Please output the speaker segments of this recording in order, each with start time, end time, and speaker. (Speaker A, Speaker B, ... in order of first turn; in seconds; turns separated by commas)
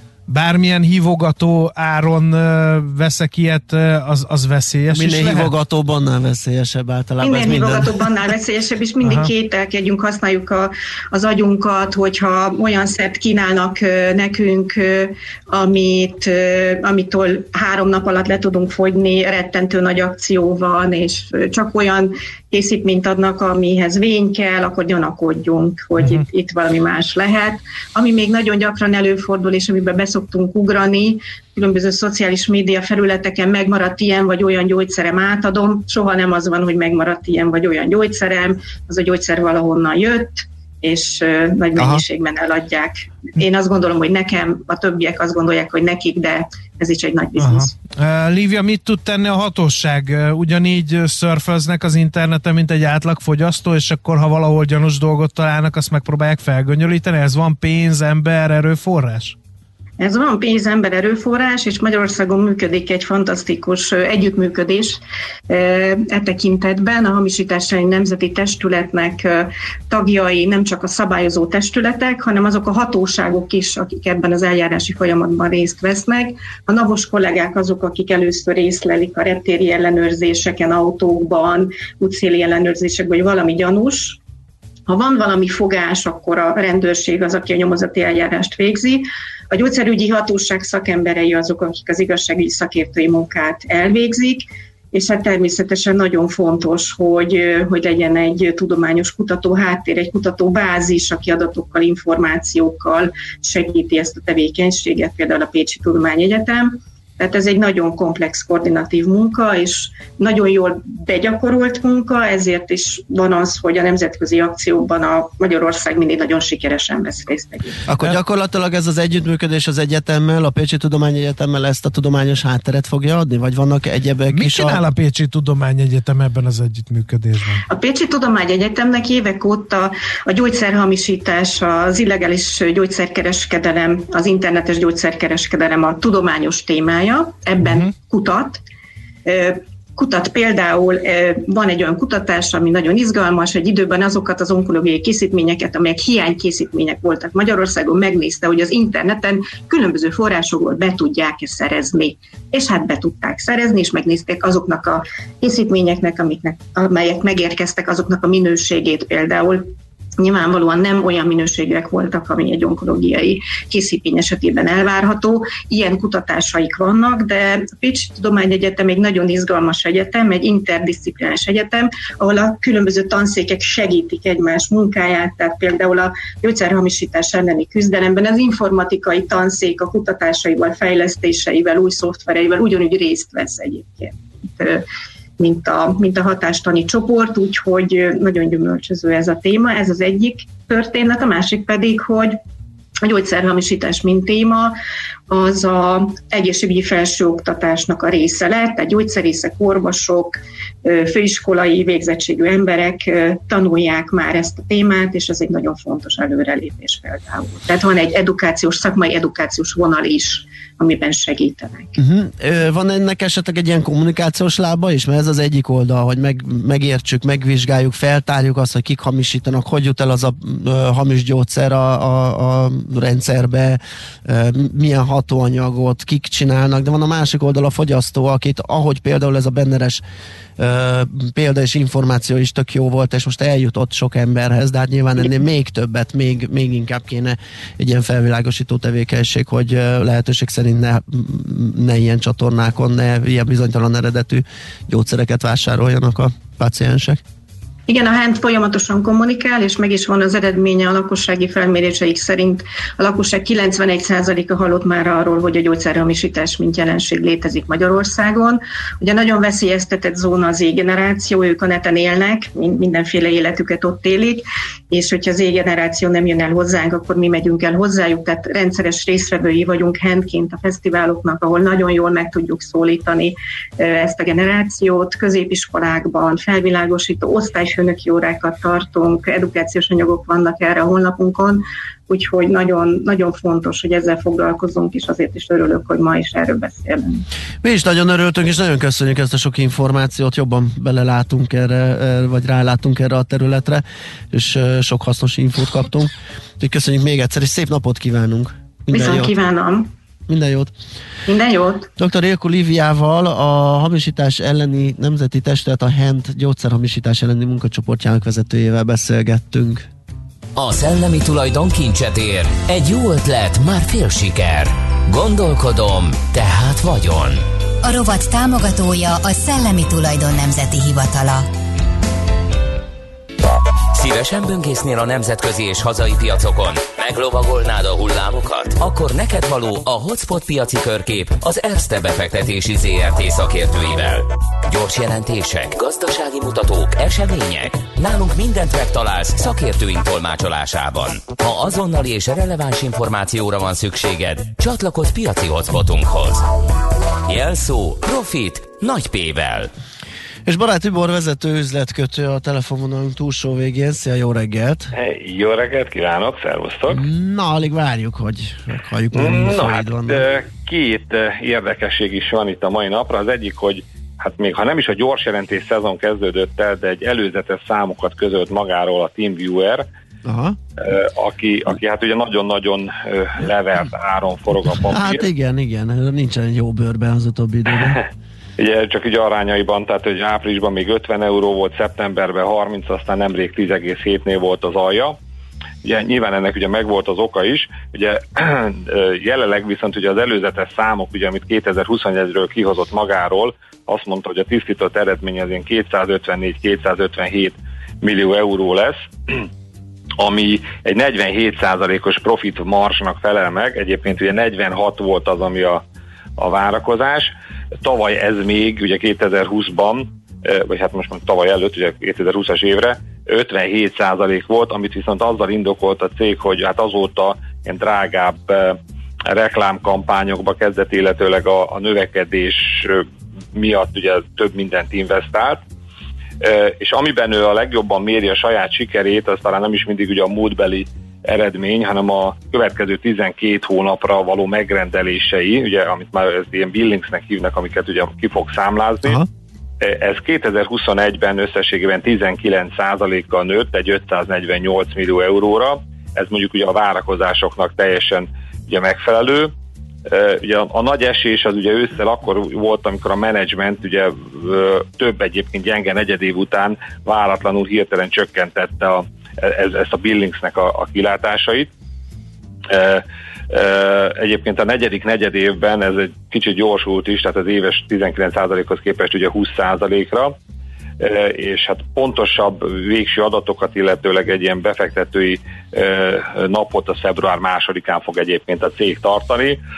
Speaker A: 0.3-5.5, Speaker B: 4.9-8.0, Speaker C: 7.2-47.7, Speaker A: 9.0-9.3, Speaker A: 47.4-59.4, Speaker C: 60.0-84.2, Speaker C: 84.9-117.8, Speaker B: 117.8-124.8, Speaker A: 124.3-127.6, Speaker C: 127.7-138.6, Speaker A: 137.6-137.9, Speaker C: 139.2-159.7, Speaker C: 160.2-184.8, Speaker C: 185.4-192.4, Speaker C: 193.0-194.7, Speaker C: 195.3-211.9, Speaker B: 212.0-230.0, Speaker B: 230.6-247.2, Speaker C: 247.9-287.2, Speaker B: 287.6-299.3, Speaker C: 298.9-299.9, Speaker B: 300.3-300.7, Speaker C: 301.2-301.9, Speaker B: 302.0-309.9, Speaker D: 310.6-317.4, Speaker E: 317.8-321.5, Speaker D: 323.9-346.4, Speaker D: 347.2-349.7, Speaker B: 350.4-354.9, Speaker F: 354.9-357.0, Speaker B: 356.9-360.2, Speaker F: 359.1-369.9, Speaker B: 370.2-370.6, Speaker F: 370.8-375.3, Speaker B: 374.9-378.0, Speaker F: 378.6-385.2, Speaker F: 385.8-399.3, Speaker F: 400.2-405.8, Speaker F: 406.4-407.3, Speaker F: 407.8-418.8, Speaker F: 419.3-425.6, Speaker F: 426.4-439.2, Speaker F: 439.8-449.5, Speaker F: 450.1-461.7, Speaker F: 462.7-470.3, Speaker F: 471.0-479.6